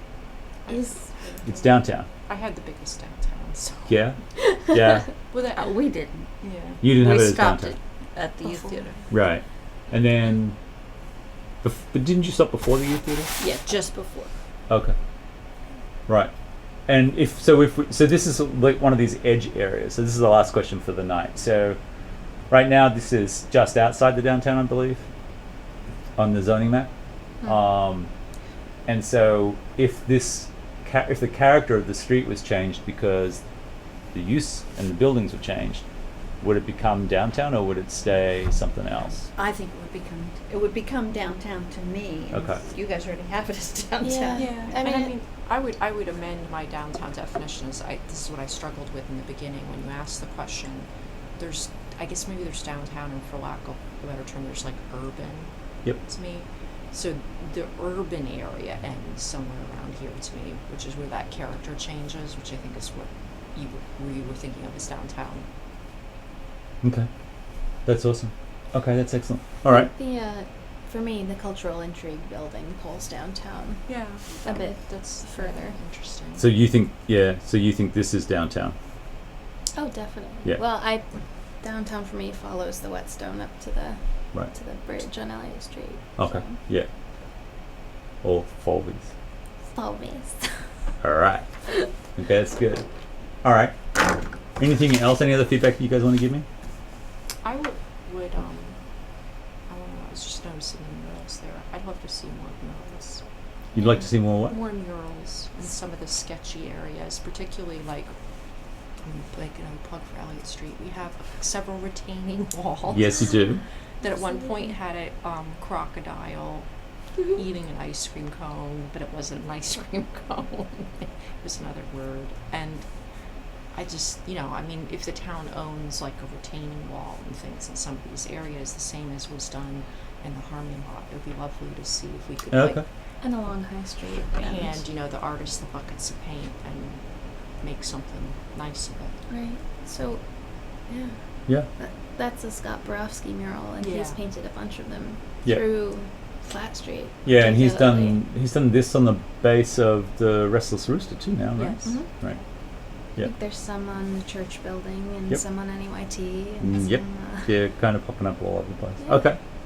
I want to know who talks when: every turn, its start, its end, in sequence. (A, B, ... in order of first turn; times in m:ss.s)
0:00.7-0:01.7 A
0:00.7-0:01.0 B
0:01.4-0:02.1 C
0:02.3-0:04.0 A
0:03.9-0:05.1 C
0:04.5-0:05.0 B
0:05.3-0:05.8 A
0:05.5-0:06.2 D
0:06.4-0:06.9 A
0:06.8-0:07.8 C
0:07.0-0:08.9 D
0:09.1-0:10.6 C
0:11.6-0:13.3 C
0:13.4-0:14.3 D
0:14.7-0:15.0 C
0:16.9-0:21.8 C
0:22.5-0:25.1 C
0:26.2-0:26.9 C
0:27.4-0:28.1 C
0:28.9-0:33.4 C
0:34.1-0:35.8 C
0:36.4-0:39.3 C
0:39.4-0:44.8 D
0:42.3-0:42.6 C
0:44.0-0:45.2 B
0:44.4-1:05.5 A
1:06.8-1:07.1 C
1:07.9-1:09.9 C
1:09.7-1:15.8 B
1:13.9-1:16.5 A
1:16.4-1:18.8 C
1:19.8-1:21.0 B
1:21.6-1:26.6 B
1:26.2-1:26.9 C
1:28.2-1:29.1 C
1:29.7-1:30.5 B
1:31.0-1:31.4 C
1:32.2-1:32.9 C
1:33.4-1:33.8 C
1:34.6-1:36.5 C
1:37.4-1:38.8 A
1:39.7-1:43.2 A
1:43.8-1:44.6 C
1:44.4-1:48.1 A
1:49.0-1:53.5 A
1:52.9-1:53.6 C
1:54.0-1:56.7 A
1:57.3-2:02.9 A
2:03.7-2:12.8 A
2:12.5-2:12.8 C
2:13.2-2:14.8 B
2:14.3-2:17.0 A
2:17.6-2:19.2 A
2:19.3-2:21.0 B
2:21.7-2:28.2 B
2:23.8-2:24.2 A
2:27.2-2:32.4 C
2:31.6-2:32.4 A
2:33.2-2:37.5 B
2:36.6-2:39.4 C
2:39.0-2:39.3 B